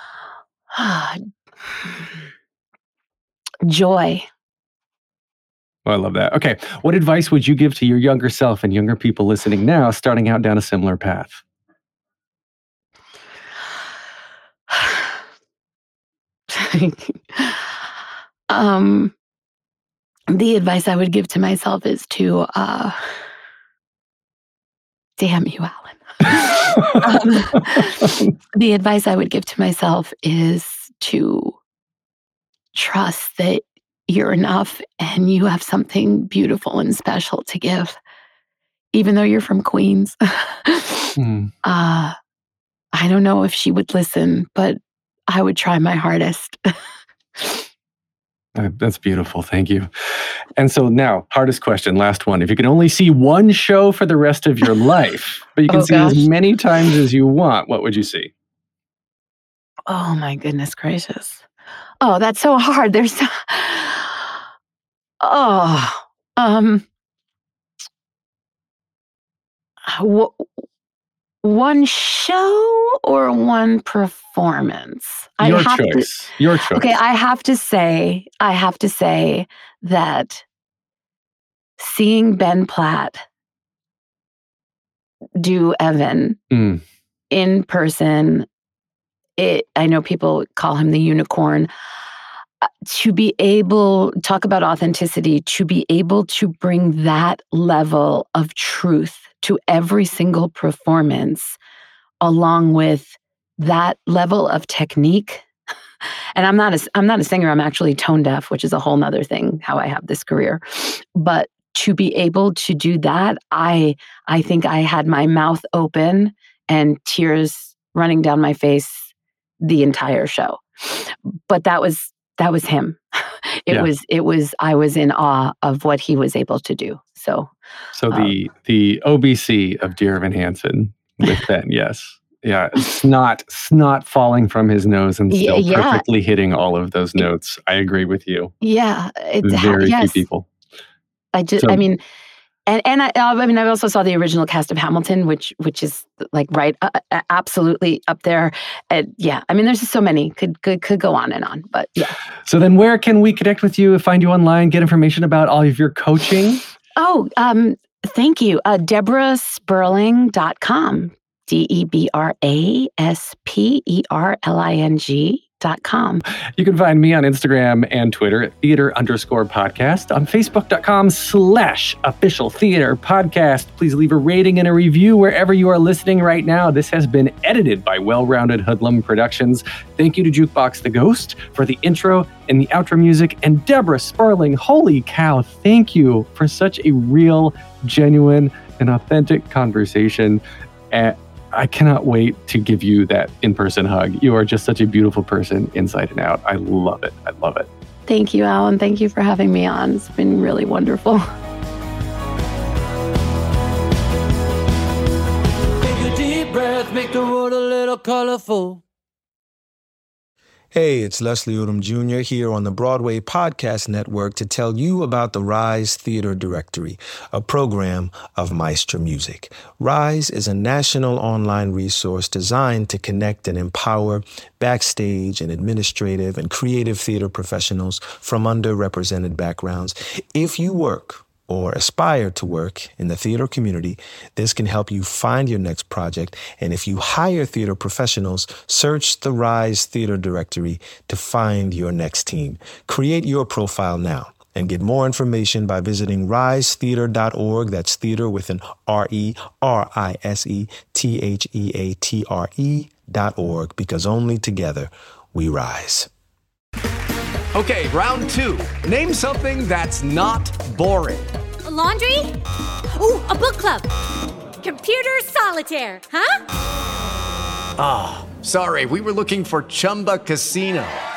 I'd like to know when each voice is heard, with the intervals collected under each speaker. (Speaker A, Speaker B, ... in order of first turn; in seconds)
Speaker A: 0.7-1.2, 3.6-4.3, 16.5-17.6, 18.5-19.1, 20.3-23.0, 25.2-31.6, 32.7-38.0, 38.9-42.1, 42.9-44.8, 45.3-46.6, 55.7-56.2, 59.9-61.4, 62.0-64.4, 65.2-66.8, 69.9-70.5, 71.4-76.1, 76.7-80.4, 81.8-83.2, 85.4-86.4, 87.3-88.5, 89.4-91.7, 92.6-101.6, 102.2-105.4, 106.4-119.1, 119.6-123.0, 123.6-127.5, 135.3-136.0, 138.6-140.2, 141.3-142.0, 142.7-152.2, 156.9-166.2, 198.1-201.3
Speaker B: 5.9-11.4, 41.2-41.5, 48.5-49.9, 50.6-58.3, 75.4-76.9, 86.5-86.8, 127.9-138.5, 139.4-140.4, 152.4-156.6, 166.6-197.7
Speaker C: 205.8-208.8
Speaker D: 210.7-256.1
Speaker E: 257.5-261.3, 267.8-271.0
Speaker F: 261.6-262.4, 262.9-263.9, 264.6-266.4